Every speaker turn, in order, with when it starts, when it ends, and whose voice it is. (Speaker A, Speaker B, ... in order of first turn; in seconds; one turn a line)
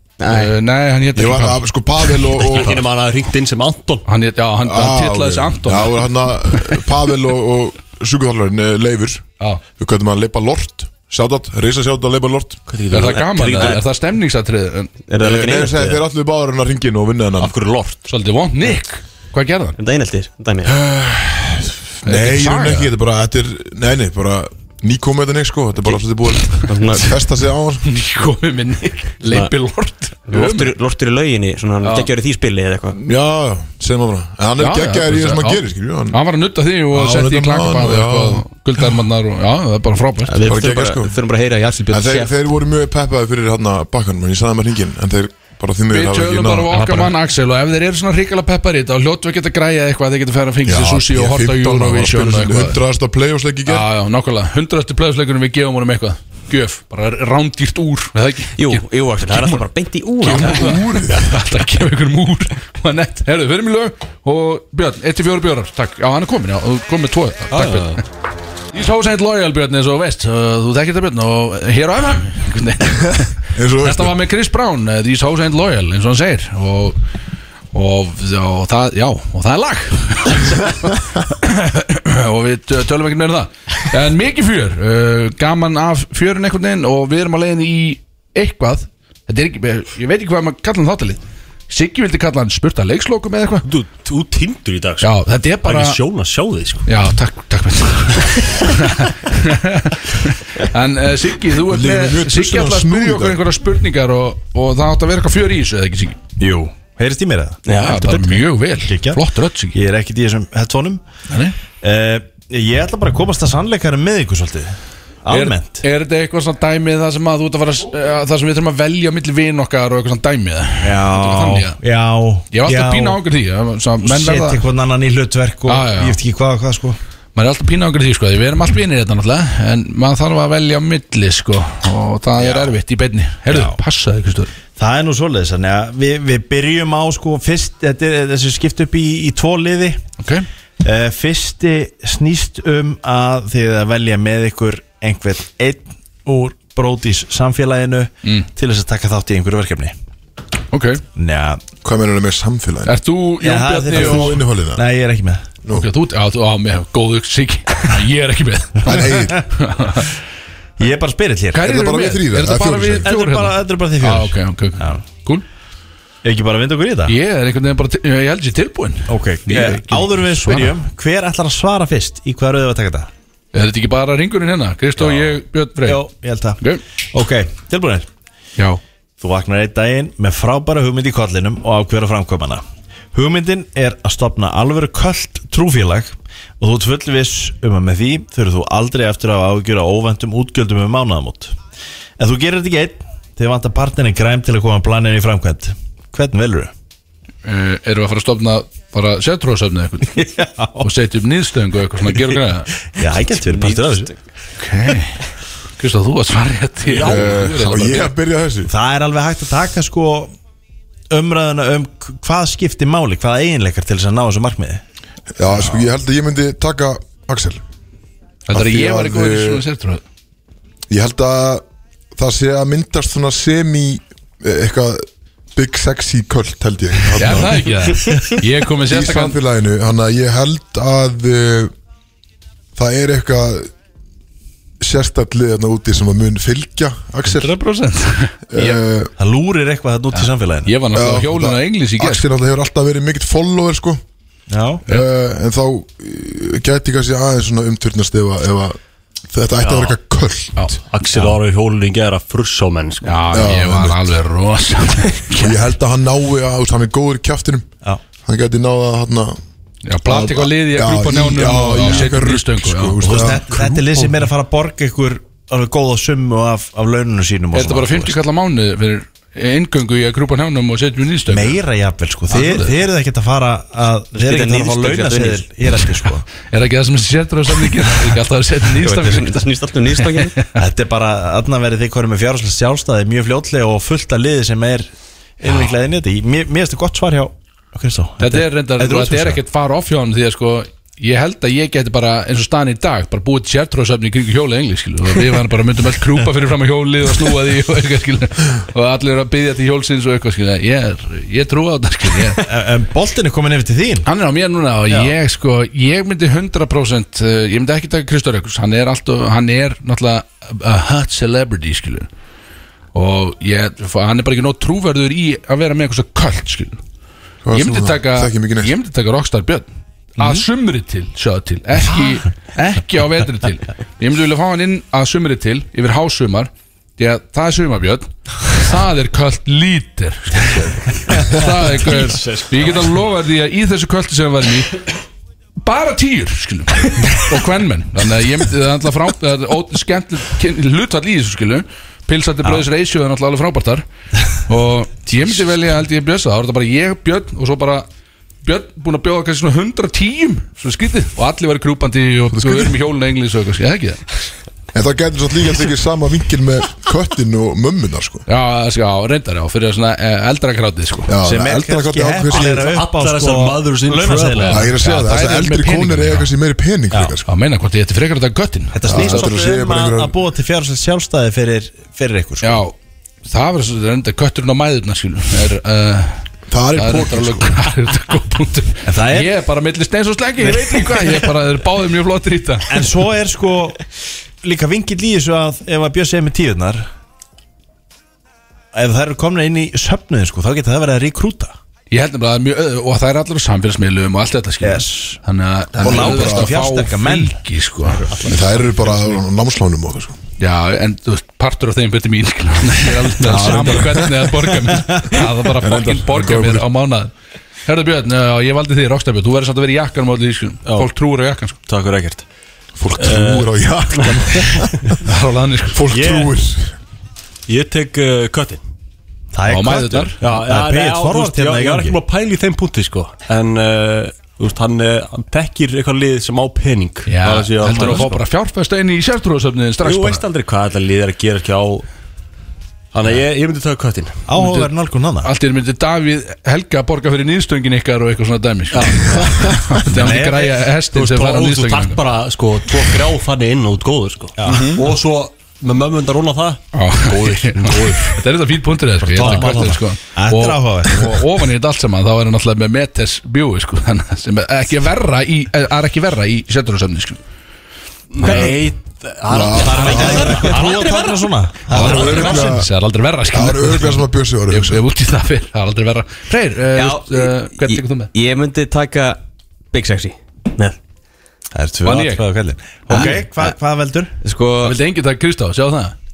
Speaker A: 0.2-0.5
Speaker B: 0.3-1.6
Speaker C: 1.2-2.8
Speaker D: 2.4-4.1
Speaker B: 4.1-6.8
Speaker C: 4.6-12.6
Speaker D: 12.7-13.8
Speaker B: 12.9-14.9
Speaker A: 15.1-15.8
Speaker C: 15.2-17.6
Speaker D: 17.4-18.0
Speaker B: 18.1-19.8
Speaker A: 19.8-20.8
Speaker C: 20.6-27.9
Speaker B: 22.0-22.9
Speaker A: 26.7-27.1
Speaker B: 27.8-30.7
Speaker A: 29.3-29.5
Speaker A: 30.3-33.0
Speaker B: 31.8-32.1
Speaker C: 32.9-36.2
Speaker B: 34.6-40.5
Speaker C: 36.9-38.5
Speaker A: 40.3-42.4
Speaker C: 40.4-41.1
Speaker C: 41.9-47.0
Speaker B: 45.9-52.8
Speaker C: 50.6-53.9
Speaker B: 53.7-59.6
Speaker A: 58.6-60.7
Speaker B: 60.2-68.0
Speaker C: 60.2-61.4
Speaker D: 67.5-68.0
Speaker B: 68.7-77.0
Speaker C: 73.5-74.1
Speaker B: 77.7-93.7
Speaker D: 93.7-96.9
Speaker B: 95.0-96.0
Speaker B: 96.9-106.2
Speaker C: 101.7-103.4
Speaker E: 106.4-111.0
Speaker A: 107.7-108.2
Speaker B: 107.7-109.8
Speaker B: 111.3-111.6
Speaker E: 111.8-115.8
Speaker B: 115.3-121.8
Speaker E: 120.8-123.2
Speaker B: 122.5-124.7
Speaker E: 124.0-127.0
Speaker B: 125.7-126.2
Speaker B: 127.4-134.5
Speaker E: 133.5-133.8
Speaker E: 134.8-140.0
Speaker B: 140.2-140.5
Speaker E: 140.8-149.9
Speaker B: 150.7-151.0
Speaker E: 151.2-151.6
Speaker C: 151.8-153.0
Speaker B: 152.8-154.4
Speaker E: 153.4-155.6
Speaker C: 153.9-154.8
Speaker C: 155.6-155.9
Speaker B: 155.7-160.1
Speaker E: 158.8-159.4
Speaker C: 158.9-159.4
Speaker E: 160.8-161.7
Speaker B: 161.5-165.4
Speaker C: 161.6-163.1
Speaker E: 163.0-165.0
Speaker E: 166.2-167.2
Speaker B: 167.1-170.8
Speaker E: 169.1-173.1
Speaker B: 173.5-176.1
Speaker E: 175.0-175.3
Speaker E: 175.8-178.1
Speaker E: 179.2-191.6
Speaker E: 192.2-196.7
Speaker B: 197.4-202.7
Speaker E: 200.3-200.9
Speaker E: 202.9-204.1
Speaker A: 203.3-204.2
Speaker B: 204.6-205.2
Speaker B: 205.8-208.1
Speaker C: 206.9-208.7
Speaker D: 207.0-207.6
Speaker E: 208.7-210.3
Speaker E: 211.1-214.8
Speaker C: 215.4-217.6
Speaker B: 218.5-220.0
Speaker C: 218.5-219.6
Speaker C: 220.9-221.6
Speaker C: 222.2-227.7
Speaker B: 227.1-229.4
Speaker C: 228.8-231.7
Speaker C: 232.8-233.7
Speaker C: 234.8-237.5
Speaker B: 237.2-238.8
Speaker C: 238.5-239.1
Speaker E: 239.2-240.8
Speaker B: 240.1-242.3
Speaker C: 240.9-244.0
Speaker E: 244.5-244.8
Speaker C: 244.9-248.8
Speaker C: 249.3-250.6
Speaker D: 249.6-250.0
Speaker D: 250.9-253.3
Speaker E: 251.1-251.4
Speaker B: 253.0-255.7
Speaker C: 253.3-254.0
Speaker C: 255.4-257.7
Speaker C: 258.2-259.4
Speaker B: 259.9-263.4
Speaker C: 260.0-263.7
Speaker E: 263.0-268.2
Speaker B: 267.5-271.6
Speaker E: 271.3-276.2
Speaker B: 272.3-272.8
Speaker A: 274.1-275.4
Speaker B: 276.4-280.6
Speaker A: 278.8-280.4
Speaker E: 280.6-289.4
Speaker B: 288.2-302.4
Speaker E: 302.4-304.1
Speaker B: 304.1-312.1
Speaker B: 312.9-316.8
Speaker C: 317.4-318.7
Speaker B: 317.5-334.8
Speaker D: 331.4-333.1
Speaker B: 335.6-343.9
Speaker B: 344.5-347.9
Speaker B: 348.4-354.0
Speaker C: 352.3-352.7
Speaker C: 354.7-358.2
Speaker B: 358.3-361.2
Speaker C: 361.1-362.7
Speaker E: 361.2-364.8
Speaker D: 362.3-364.6
Speaker B: 364.3-366.3
Speaker C: 364.5-367.3
Speaker B: 367.3-369.3
Speaker E: 368.7-372.6
Speaker C: 368.9-370.1
Speaker B: 372.4-382.9
Speaker C: 376.5-377.6
Speaker E: 378.9-379.4
Speaker E: 380.5-381.0
Speaker E: 382.7-383.8
Speaker E: 384.4-386.9
Speaker E: 388.7-391.6
Speaker B: 391.9-398.4
Speaker E: 394.6-395.2
Speaker E: 395.8-398.4
Speaker C: 395.8-396.6
Speaker C: 398.2-400.2
Speaker B: 400.4-407.1
Speaker C: 403.2-404.2
Speaker E: 404.4-405.0
Speaker C: 405.6-406.6
Speaker B: 407.7-411.6
Speaker D: 410.6-410.9
Speaker D: 411.7-412.2
Speaker C: 412.8-415.0
Speaker D: 412.9-414.1
Speaker B: 415.0-415.8
Speaker C: 415.7-416.8
Speaker D: 415.9-416.3
Speaker D: 417.5-418.6
Speaker E: 419.3-422.0
Speaker B: 419.5-420.1
Speaker D: 420.2-428.1
Speaker B: 427.1-430.2
Speaker E: 427.7-428.1
Speaker D: 429.8-431.9
Speaker D: 432.9-434.2
Speaker E: 434.3-435.3
Speaker B: 434.4-442.0
Speaker D: 438.7-439.3
Speaker E: 439.1-440.6
Speaker D: 440.9-448.2
Speaker E: 444.4-444.8
Speaker B: 446.7-457.2
Speaker E: 449.0-451.1
Speaker D: 449.1-449.5
Speaker D: 458.1-461.2
Speaker E: 458.2-458.6
Speaker C: 459.3-460.6
Speaker E: 459.3-462.4
Speaker A: 459.9-460.8
Speaker B: 461.7-468.1
Speaker C: 461.7-462.7
Speaker C: 463.3-464.8
Speaker A: 466.8-469.2
Speaker A: 469.7-470.8
Speaker E: 471.5-474.1
Speaker B: 471.8-472.2
Speaker A: 472.9-473.6
Speaker A: 474.2-474.8
Speaker B: 474.6-475.9